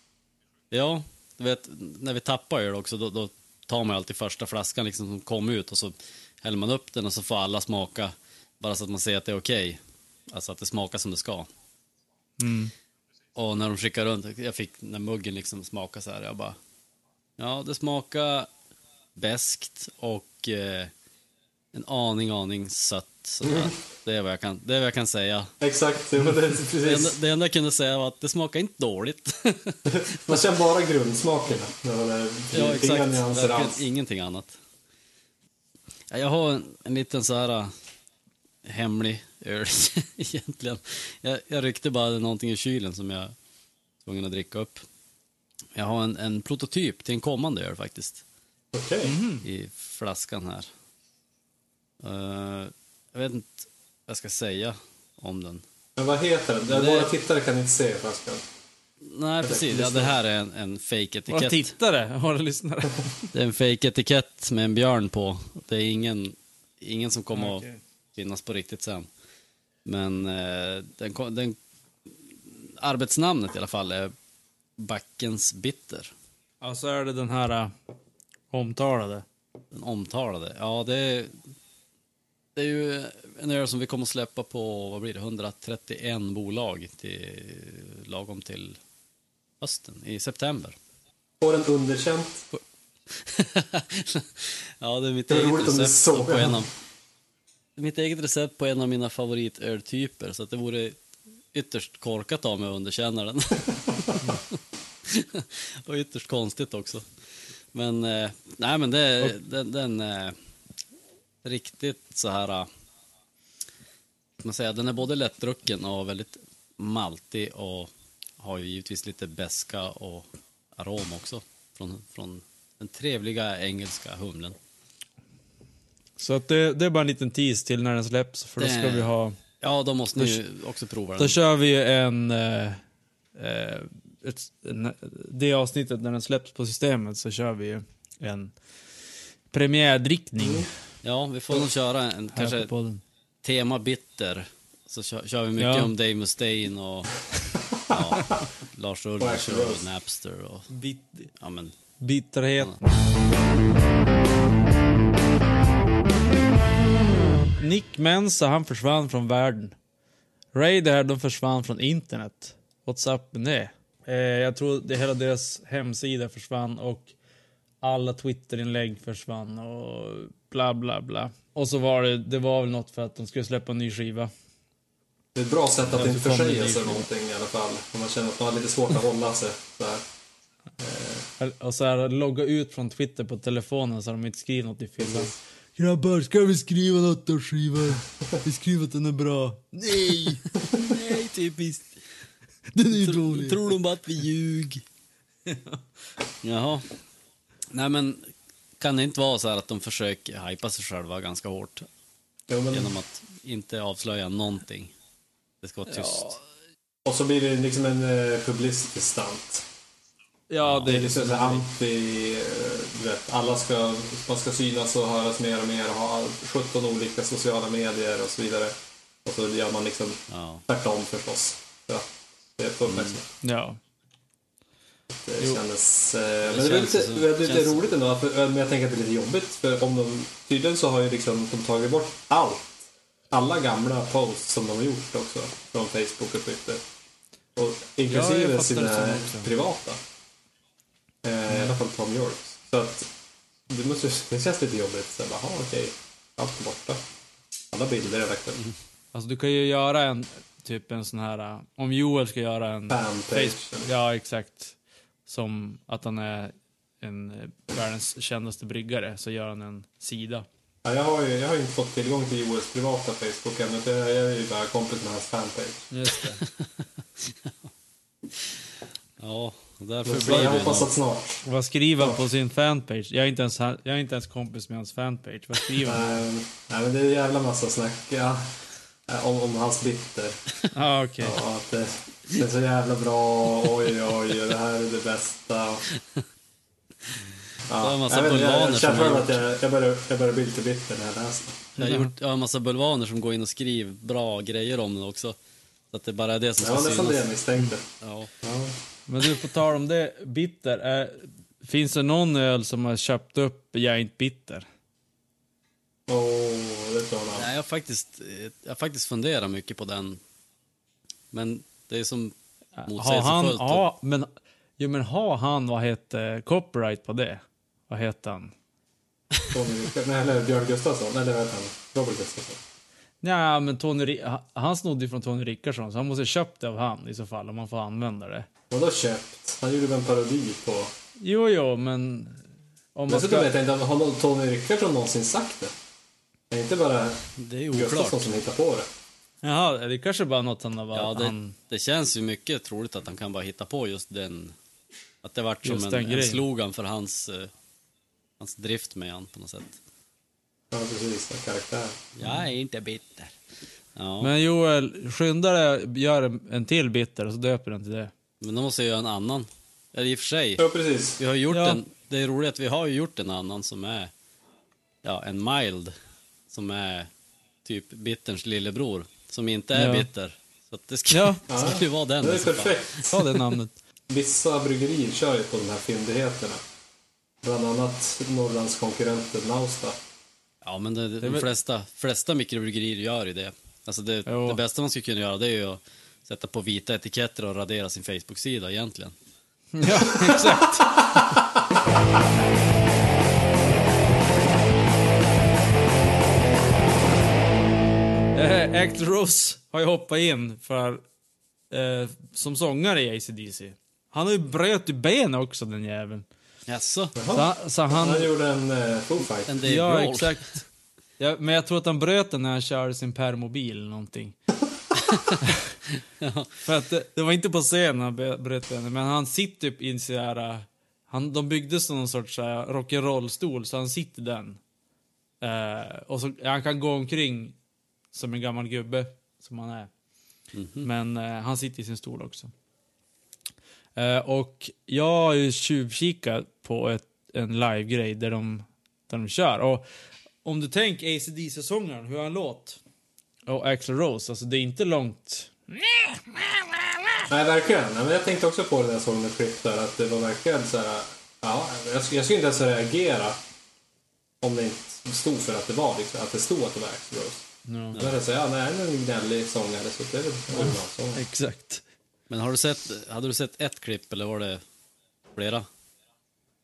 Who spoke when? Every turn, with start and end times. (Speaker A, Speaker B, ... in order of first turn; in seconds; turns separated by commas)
Speaker A: 0.7-11.5, Speaker B: 12.4-12.7, Speaker A: 13.3-16.6, Speaker A: 17.4-18.5, Speaker A: 19.2-20.9, Speaker A: 21.7-25.5, Speaker C: 23.4-23.7, Speaker C: 25.6-27.2, Speaker A: 26.8-30.4, Speaker C: 29.9-33.8, Speaker A: 32.5-34.5, Speaker A: 36.1-37.7, Speaker A: 38.6-43.3, Speaker A: 44.0-44.8, Speaker A: 45.8-48.2, Speaker C: 48.7-49.2, Speaker B: 49.0-49.5, Speaker A: 49.4-50.7, Speaker A: 52.0-55.6, Speaker C: 56.0-58.4, Speaker A: 56.7-57.1, Speaker A: 59.1-61.7, Speaker C: 59.4-60.1, Speaker B: 61.3-63.1, Speaker A: 63.3-67.6, Speaker B: 67.3-67.8, Speaker A: 68.2-69.1, Speaker A: 69.8-71.6, Speaker A: 72.1-74.1, Speaker A: 74.8-76.1, Speaker B: 76.6-77.7, Speaker B: 78.5-79.2, Speaker A: 79.7-81.4, Speaker A: 82.6-88.8, Speaker A: 89.6-90.8, Speaker C: 91.4-92.5, Speaker A: 93.1-96.7, Speaker C: 95.3-96.6, Speaker A: 97.8-101.0, Speaker A: 101.5-104.4, Speaker A: 105.1-107.1, Speaker A: 107.7-110.4, Speaker A: 111.4-112.7, Speaker A: 114.4-124.6, Speaker B: 126.2-129.4, Speaker A: 128.6-131.4, Speaker B: 131.2-132.8, Speaker B: 133.4-138.5, Speaker B: 139.5-140.7, Speaker C: 140.4-140.7, Speaker A: 141.0-142.7, Speaker B: 142.3-143.0, Speaker A: 143.4-147.2, Speaker B: 145.6-145.9, Speaker A: 147.9-150.7, Speaker C: 149.2-149.8, Speaker B: 150.7-151.3, Speaker A: 151.4-151.8, Speaker B: 152.0-152.9, Speaker B: 157.6-159.8, Speaker B: 160.5-167.1, Speaker B: 167.8-174.3, Speaker C: 175.3-180.0, Speaker B: 175.9-177.1, Speaker C: 180.8-181.3, Speaker B: 181.4-190.5, Speaker C: 185.0-185.3, Speaker A: 190.8-192.0, Speaker B: 192.7-193.6, Speaker A: 193.0-194.8, Speaker B: 195.5-195.8, Speaker A: 196.4-196.9, Speaker A: 197.7-201.9, Speaker C: 202.5-202.9, Speaker A: 202.7-204.9, Speaker A: 205.6-206.4, Speaker B: 205.9-206.4, Speaker C: 207.1-209.7, Speaker B: 210.5-211.7, Speaker A: 210.6-210.9, Speaker C: 210.9-218.7, Speaker C: 219.2-223.3, Speaker A: 220.3-220.6, Speaker A: 222.9-223.2, Speaker B: 223.4-223.8, Speaker C: 225.1-232.8, Speaker A: 226.5-227.8, Speaker C: 233.3-236.8, Speaker C: 237.6-240.0, Speaker B: 238.1-239.5, Speaker C: 241.2-243.1, Speaker C: 243.7-247.0, Speaker C: 247.7-248.6, Speaker B: 249.1-260.5, Speaker C: 252.9-253.9, Speaker C: 260.9-265.9, Speaker B: 265.9-266.4, Speaker A: 266.4-266.7, Speaker A: 267.2-267.5, Speaker A: 269.2-270.9, Speaker C: 270.1-271.4, Speaker B: 270.2-270.7, Speaker B: 271.4-276.2, Speaker C: 275.8-278.5, Speaker C: 279.1-280.4, Speaker B: 280.7-281.4, Speaker C: 281.2-285.8, Speaker C: 287.7-291.7, Speaker A: 287.8-289.4, Speaker B: 291.8-292.1, Speaker A: 291.8-295.4, Speaker A: 295.9-297.3, Speaker C: 296.6-297.8, Speaker A: 298.0-298.3, Speaker C: 298.4-298.8, Speaker B: 299.1-304.7, Speaker C: 306.1-307.5, Speaker A: 307.4-310.2, Speaker A: 311.3-312.3, Speaker B: 312.8-318.5, Speaker A: 312.9-313.8, Speaker C: 319.5-322.6, Speaker B: 323.2-328.5, Speaker C: 328.7-330.9, Speaker B: 331.2-332.4, Speaker B: 332.9-333.5, Speaker C: 333.1-335.7, Speaker C: 336.5-338.9, Speaker A: 337.4-338.3, Speaker B: 339.4-341.6, Speaker A: 340.9-344.6, Speaker A: 345.2-347.5, Speaker B: 345.6-346.4, Speaker A: 348.4-349.8, Speaker C: 350.7-352.0, Speaker A: 352.2-353.4, Speaker A: 354.0-354.3, Speaker B: 354.2-358.1, Speaker A: 358.4-360.6, Speaker C: 360.6-361.2, Speaker A: 361.2-364.1, Speaker B: 361.5-361.8, Speaker A: 365.0-365.9, Speaker A: 366.5-367.1, Speaker A: 367.6-373.4, Speaker B: 369.7-370.1, Speaker B: 371.1-371.4, Speaker C: 371.5-373.1, Speaker B: 373.1-373.7, Speaker C: 374.1-376.6, Speaker C: 377.4-380.0, Speaker A: 380.6-389.1, Speaker B: 381.2-381.5, Speaker B: 384.3-384.6, Speaker B: 389.7-391.2, Speaker B: 398.3-401.0, Speaker B: 401.7-406.3, Speaker A: 406.7-407.2, Speaker C: 407.2-409.5, Speaker B: 407.3-408.3, Speaker A: 409.5-410.6, Speaker B: 409.6-410.7, Speaker B: 411.2-414.4, Speaker A: 415.1-415.4, Speaker A: 416.2-416.5, Speaker B: 416.6-424.6, Speaker B: 425.4-427.6, Speaker B: 428.1-429.9, Speaker A: 430.5-430.9, Speaker B: 430.8-432.5, Speaker B: 434.0-439.9, Speaker B: 440.4-442.8, Speaker B: 443.5-446.6, Speaker C: 447.3-453.4, Speaker C: 454.4-461.2, Speaker B: 457.7-458.0, Speaker B: 460.6-461.8, Speaker A: 462.3-464.6, Speaker A: 465.3-465.7